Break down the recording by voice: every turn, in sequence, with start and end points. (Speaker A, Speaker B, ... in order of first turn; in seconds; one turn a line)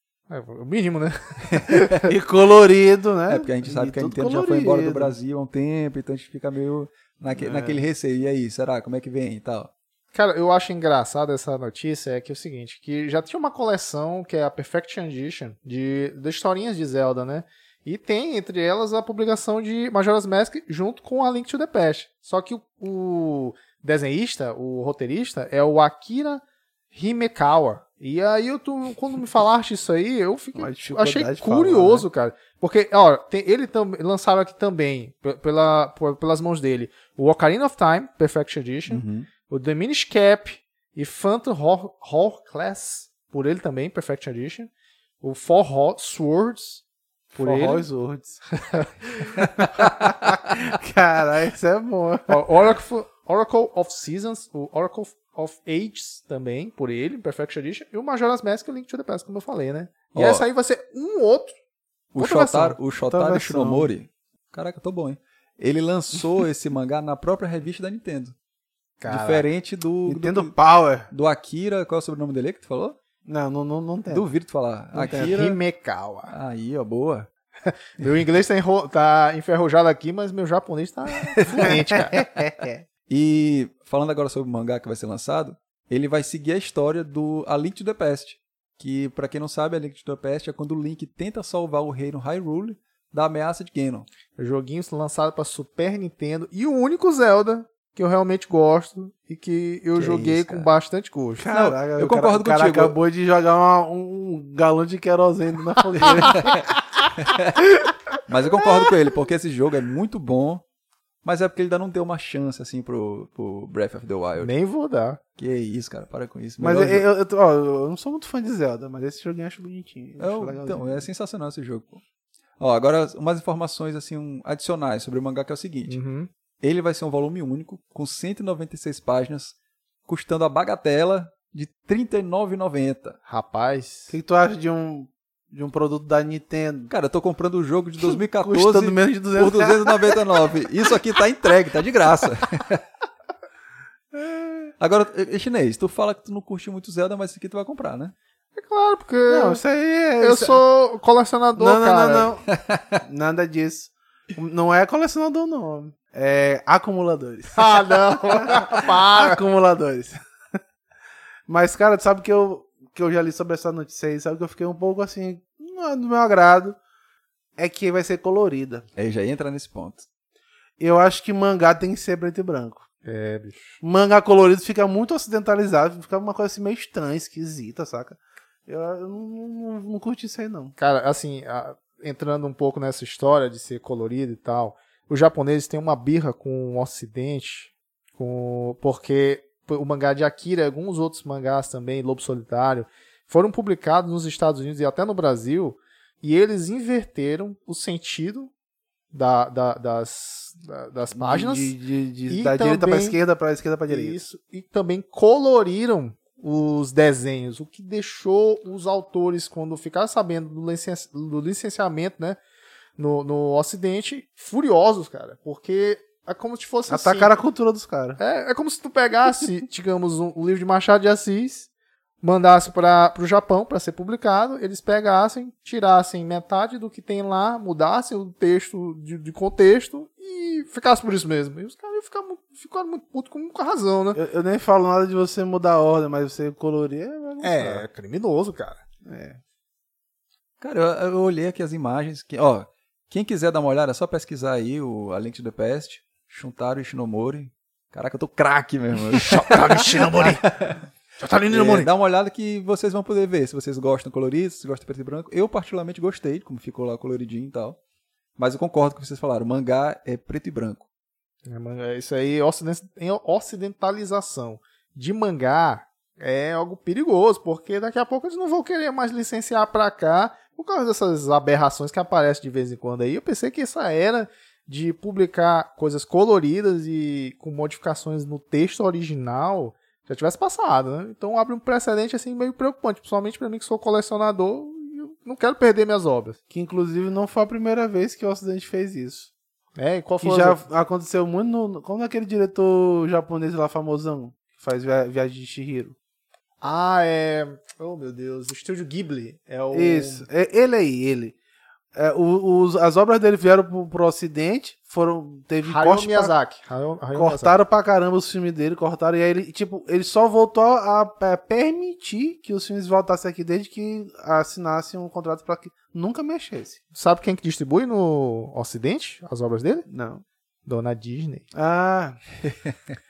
Speaker A: 0.3-2.1
Speaker B: 1.5-1.9
Speaker C: 2.0-5.2
Speaker B: 3.3-9.7
Speaker C: 7.3-7.8
Speaker A: 10.1-26.4
Speaker A: 26.9-44.7
Speaker C: 30.6-32.1
Speaker B: 38.9-39.3
Speaker A: 45.2-46.8
Speaker C: 47.3-48.4
Speaker A: 47.4-47.9
Speaker A: 48.6-49.4
Speaker C: 49.3-52.5
Speaker A: 52.3-61.5
Speaker B: 60.1-60.5
Speaker B: 62.1-68.3
Speaker A: 62.2-62.8
Speaker C: 63.1-63.9
Speaker A: 69.0-69.5
Speaker B: 69.1-70.5
Speaker C: 70.1-71.1
Speaker B: 71.1-73.0
Speaker C: 73.3-74.3
Speaker B: 74.1-75.5
Speaker C: 75.0-75.5
Speaker A: 75.1-76.3
Speaker B: 76.3-77.3
Speaker A: 77.7-82.2
Speaker B: 81.3-81.8
Speaker C: 81.6-82.8
Speaker B: 83.1-94.1
Speaker A: 94.4-101.5
Speaker B: 100.0-100.7
Speaker C: 101.4-106.6
Speaker B: 101.5-103.0
Speaker B: 106.2-106.6
Speaker B: 107.2-107.6
Speaker B: 108.3-110.6
Speaker B: 111.2-114.5
Speaker A: 114.4-115.2
Speaker B: 115.4-117.1
Speaker C: 116.6-121.1
Speaker B: 120.2-122.0
Speaker B: 122.6-126.0
Speaker A: 125.9-126.3
Speaker B: 126.6-129.6
Speaker B: 130.1-133.2
Speaker A: 133.3-134.1
Speaker C: 134.1-136.9
Speaker B: 136.9-142.8
Speaker C: 138.0-140.2
Speaker C: 144.2-144.7
Speaker B: 144.8-148.1
Speaker A: 148.6-149.6
Speaker C: 149.3-150.6
Speaker A: 150.2-152.3
Speaker C: 151.6-152.5
Speaker B: 152.5-153.0
Speaker C: 153.0-160.2
Speaker A: 157.6-159.4
Speaker C: 161.5-166.8
Speaker C: 167.6-168.8
Speaker B: 169.0-170.1
Speaker C: 170.8-172.9
Speaker A: 173.1-173.8
Speaker C: 173.8-180.8
Speaker A: 180.8-198.5
Speaker A: 199.1-201.8
Speaker C: 201.1-204.2
Speaker A: 202.3-203.2
Speaker A: 203.9-212.4
Speaker A: 213.0-217.3
Speaker C: 216.9-218.2
Speaker A: 218.2-221.7
Speaker A: 222.2-234.2
Speaker C: 234.2-237.8
Speaker A: 237.4-238.8
Speaker C: 239.1-239.4
Speaker B: 240.6-250.9
Speaker A: 249.1-250.5
Speaker A: 251.2-251.9
Speaker B: 251.5-257.8
Speaker B: 258.4-260.8
Speaker A: 261.5-286.4
Speaker C: 286.5-289.3
Speaker A: 289.8-290.6
Speaker C: 290.2-296.0
Speaker A: 296.6-300.3
Speaker C: 299.7-301.4
Speaker C: 301.9-306.3
Speaker A: 305.6-307.5
Speaker C: 307.1-316.8
Speaker A: 316.9-319.9
Speaker C: 319.9-320.2
Speaker A: 320.7-321.5
Speaker C: 321.5-322.2